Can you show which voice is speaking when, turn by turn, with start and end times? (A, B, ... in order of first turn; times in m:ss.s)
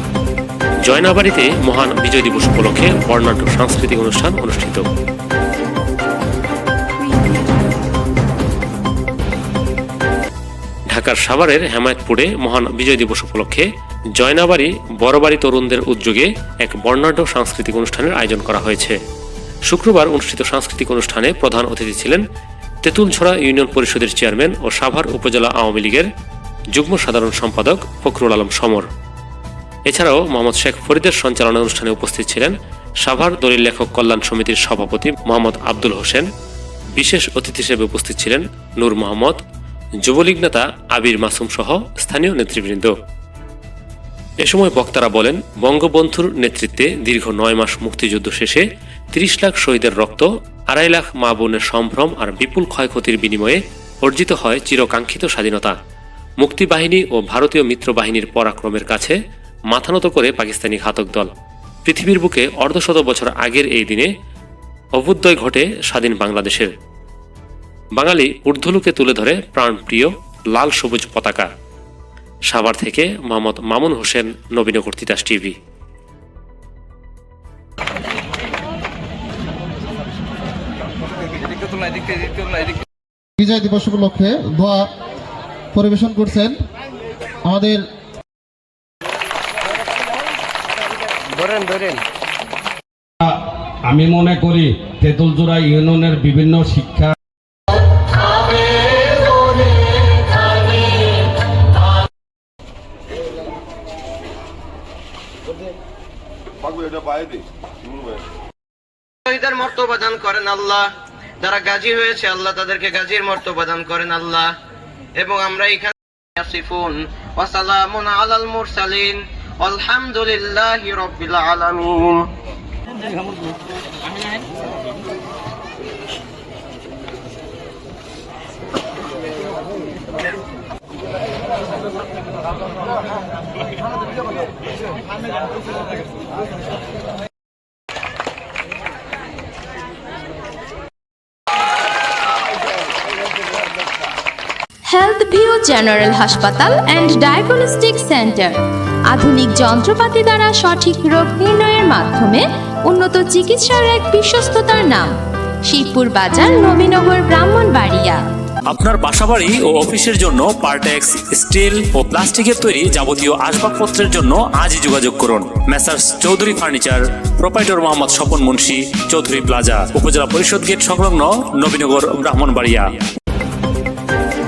0:00.8-0:04.9 A
0:10.9-0:13.6 A
0:14.2-0:19.0 A
0:19.7-0:22.2 A
0:22.8-0:26.1 A
0:26.8-0:28.9 A
0:29.9-0:36.3 A
0:37.0-0:39.4 A
0:40.0-0:42.9 A
0:44.4-0:55.8 A
0:56.4-0:59.2 A
0:59.7-1:01.3 A
1:01.8-1:04.1 A
1:05.0-1:06.7 A
1:08.0-1:11.5 A
1:12.5-1:15.6 A
1:23.4-1:24.9 B
1:25.7-1:26.6 B
1:27.4-1:27.9 B
1:31.4-1:31.9 C
1:33.2-1:37.2 D
1:49.3-1:50.9 C
1:51.4-1:54.5 C
1:55.2-2:02.3 C
2:24.9-2:28.6 E
2:29.1-2:35.1 E
2:35.7-2:38.2 E
2:38.7-2:52.9 F